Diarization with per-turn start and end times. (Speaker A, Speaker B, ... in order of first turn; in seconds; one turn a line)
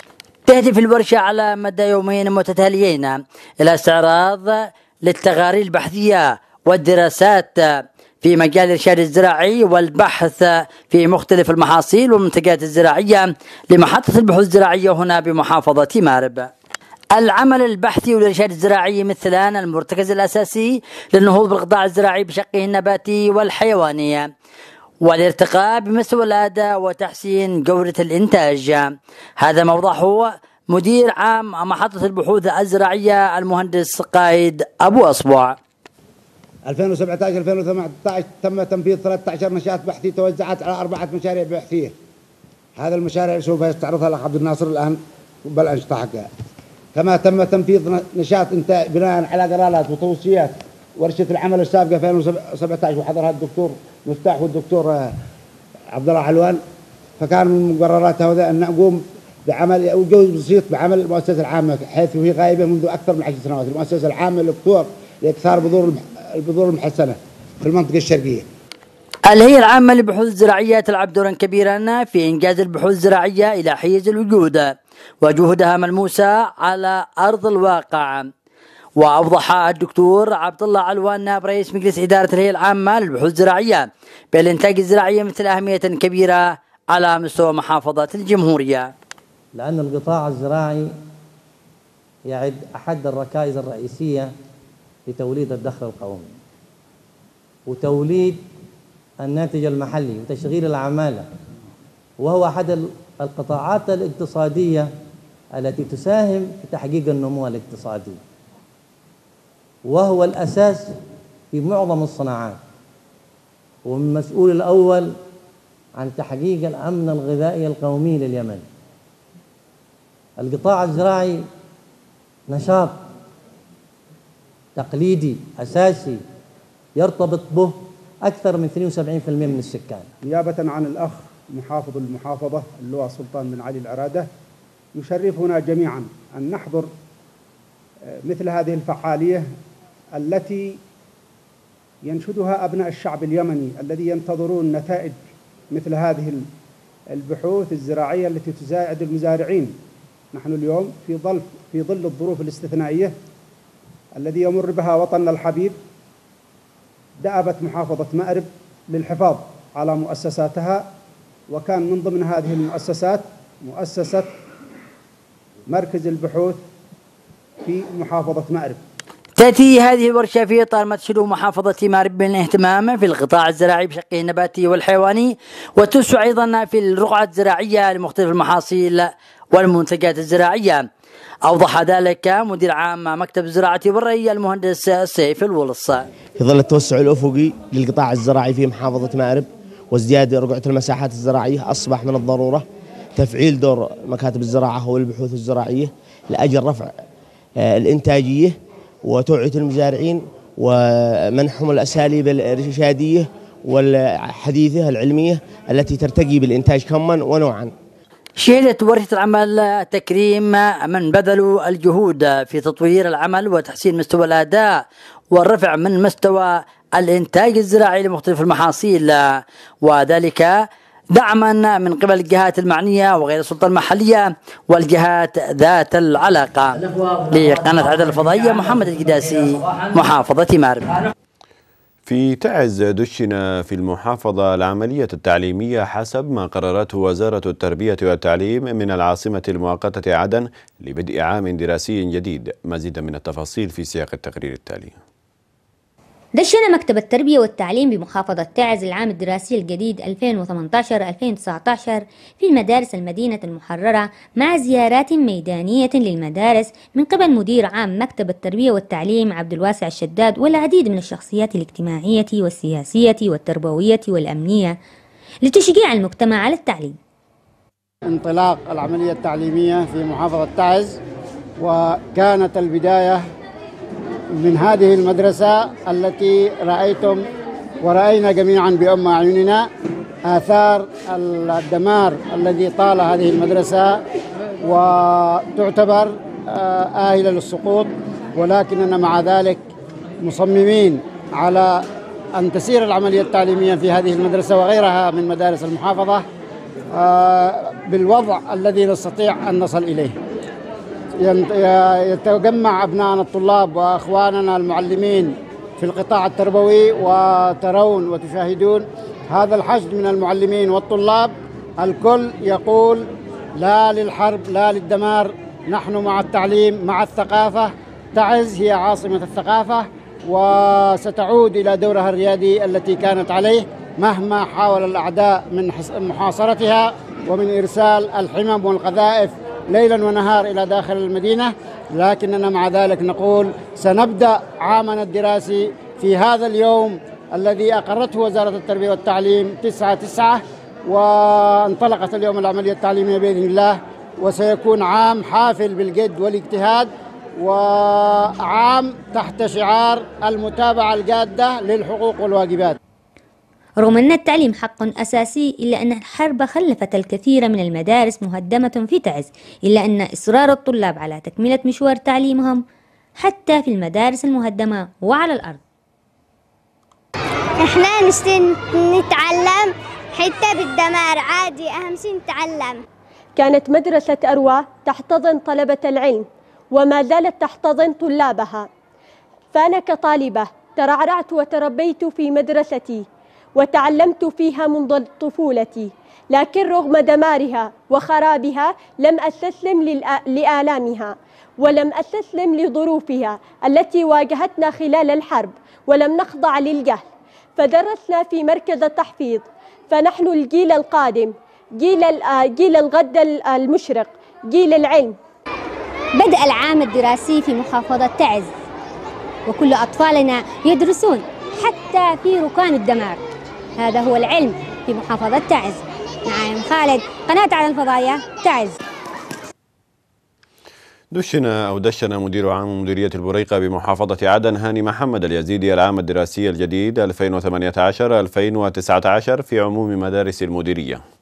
Speaker A: 0.5-16.5
Speaker A: 17.1-24.3
Speaker A: 25.0-35.6
Speaker B: 36.6-41.9
Speaker B: 42.8-46.3
Speaker B: 46.9-55.1
Speaker B: 55.9-56.6
Speaker B: 57.2-68.5
Speaker A: 69.3-78.3
Speaker A: 79.0-88.9
Speaker C: 89.5-90.9
Speaker C: 92.2-94.3
Speaker C: 95.1-96.3
Speaker C: 97.7-98.4
Speaker C: 99.2-101.3
Speaker C: 102.2-104.9
Speaker C: 105.5-108.2
Speaker C: 109.8-111.0
Speaker C: 111.5-112.6
Speaker C: 113.8-115.1
Speaker C: 116.0-118.6
Speaker C: 120.4-121.4
Speaker C: 122.5-123.0
Speaker C: 124.8-126.2
Speaker C: 127.0-130.1
Speaker D: 130.2-134.3
Speaker D: 134.9-136.9
Speaker D: 138.2-139.5
Speaker D: 140.1-140.8
Speaker D: 142.0-145.2
Speaker D: 145.7-146.4
Speaker D: 147.1-149.8
Speaker D: 150.3-153.1
Speaker D: 154.2-155.8
Speaker D: 157.2-160.9
Speaker D: 161.5-164.3
Speaker D: 165.7-166.6
Speaker D: 167.6-168.8
Speaker A: 169.4-180.8
Speaker A: 181.5-186.1
Speaker E: 186.4-192.7
Speaker E: 193.2-196.9
Speaker E: 197.6-207.7
Speaker A: 208.4-220.6
Speaker A: 221.1-231.1
Speaker F: 232.1-245.0
Speaker G: 246.4-264.8
Speaker G: 265.4-267.0
Speaker H: 268.1-271.0
Speaker H: 271.6-273.2
Speaker H: 274.4-277.2
Speaker H: 277.8-279.7
Speaker H: 280.3-284.0
Speaker H: 284.6-289.6
Speaker H: 290.2-291.8
Speaker H: 292.4-296.2
Speaker H: 296.9-300.1
Speaker H: 301.2-313.1
Speaker H: 313.6-352.8
Speaker G: 353.8-362.6
Speaker G: 363.2-365.6
Speaker I: 367.6-372.8
Speaker J: 373.4-378.7
Speaker J: 379.5-397.0
Speaker J: 397.6-405.1
Speaker K: 406.1-408.5
Speaker K: 409.5-413.2
Speaker K: 413.8-418.7
Speaker F: 421.1-431.0